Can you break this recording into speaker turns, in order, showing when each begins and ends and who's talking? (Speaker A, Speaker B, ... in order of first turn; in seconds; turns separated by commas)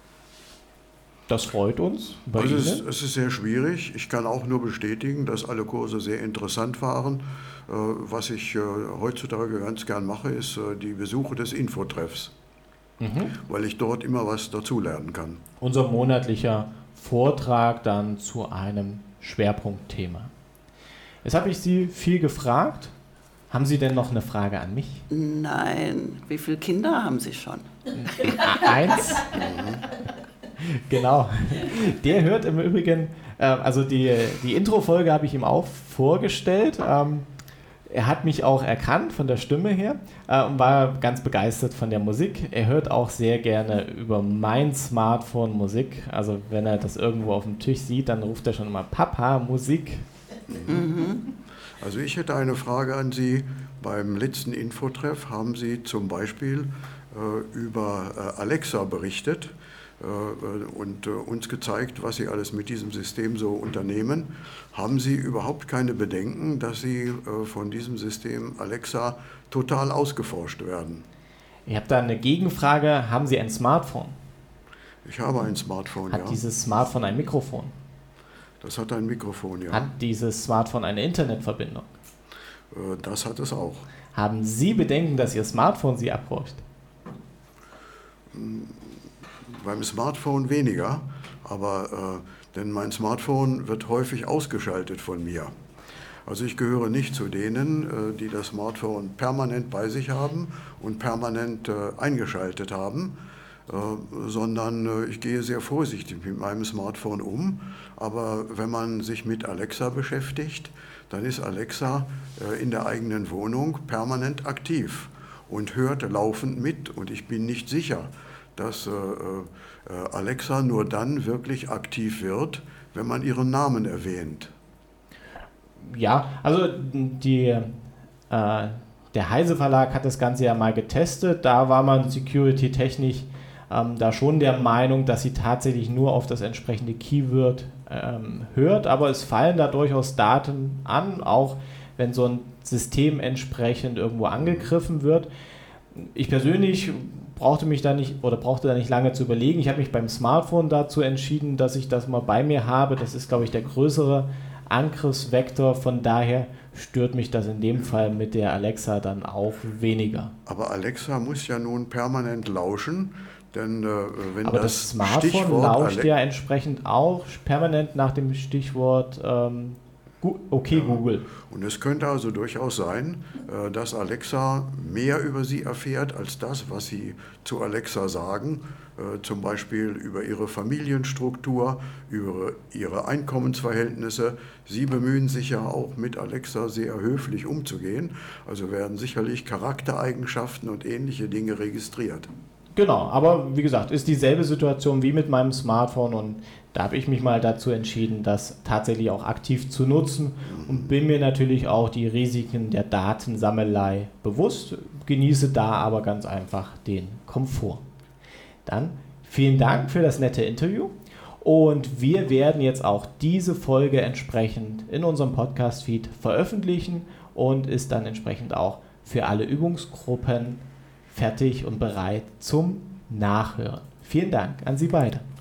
Speaker A: 1.3-2.8, Speaker B: 2.4-12.3, Speaker A: 13.0-13.3, Speaker B: 13.4-15.4, Speaker A: 15.6-20.3, Speaker A: 21.2-22.9, Speaker A: 23.5-25.0, Speaker C: 25.1-27.7, Speaker A: 27.9-29.3, Speaker B: 29.3-29.8, Speaker A: 30.6-37.3, Speaker A: 37.9-50.0, Speaker B: 50.5-50.9, Speaker C: 50.7-51.2, Speaker B: 51.8-71.0, Speaker A: 71.7-74.2, Speaker B: 75.0-76.4, Speaker A: 76.1-77.7, Speaker B: 78.6-79.8, Speaker A: 79.7-81.9, Speaker B: 82.7-83.9, Speaker A: 84.1-86.6, Speaker B: 88.3-95.5, Speaker B: 96.3-103.2, Speaker B: 103.7-124.5, Speaker A: 125.8-127.7, Speaker A: 128.3-145.3, Speaker B: 144.3-144.7, Speaker A: 145.9-160.3, Speaker B: 160.4-166.1, Speaker A: 164.4-171.2, Speaker B: 171.5-192.3, Speaker A: 192.7-207.8, Speaker B: 200.4-201.0, Speaker A: 208.6-225.2